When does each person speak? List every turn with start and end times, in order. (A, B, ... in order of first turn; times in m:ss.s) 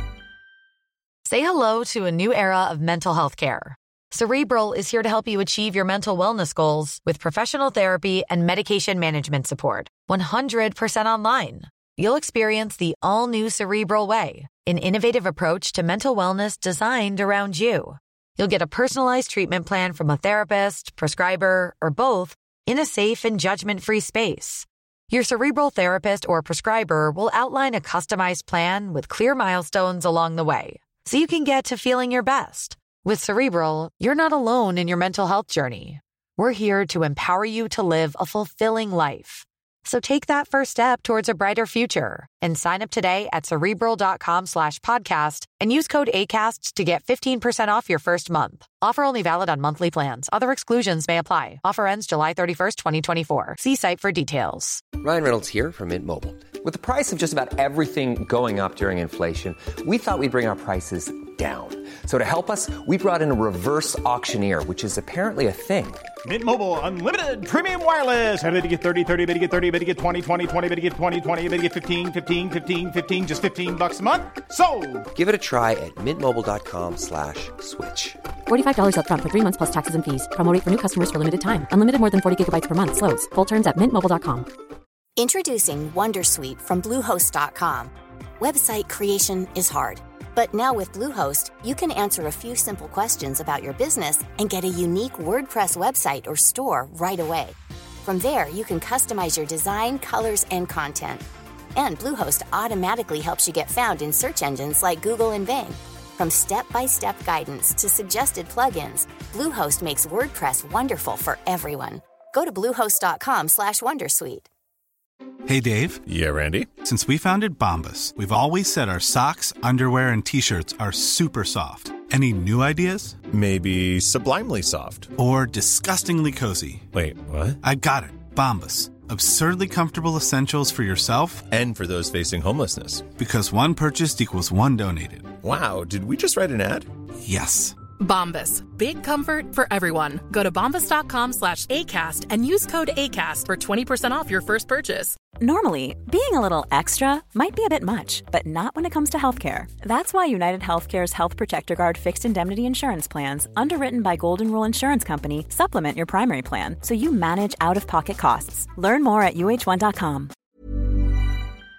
0:01.2-0:54.9 A
0:54.9-1:06.0 B
1:06.2-1:15.1 C
1:15.1-1:18.2 B
1:18.5-1:24.5 D
1:25.2-1:41.2 E
1:41.7-1:54.5 E
1:55.4-1:56.0 F
1:56.1-1:56.7 G
1:56.8-2:03.3 F
2:03.3-2:05.1 G
2:05.1-2:06.9 F
2:06.9-2:07.6 G
2:07.6-2:11.5 F
2:11.5-2:13.1 G
2:13.2-2:15.4 F
2:15.4-2:16.9 G
2:17.2-2:17.8 F
2:18.0-2:25.2 H
2:25.4-2:40.3 I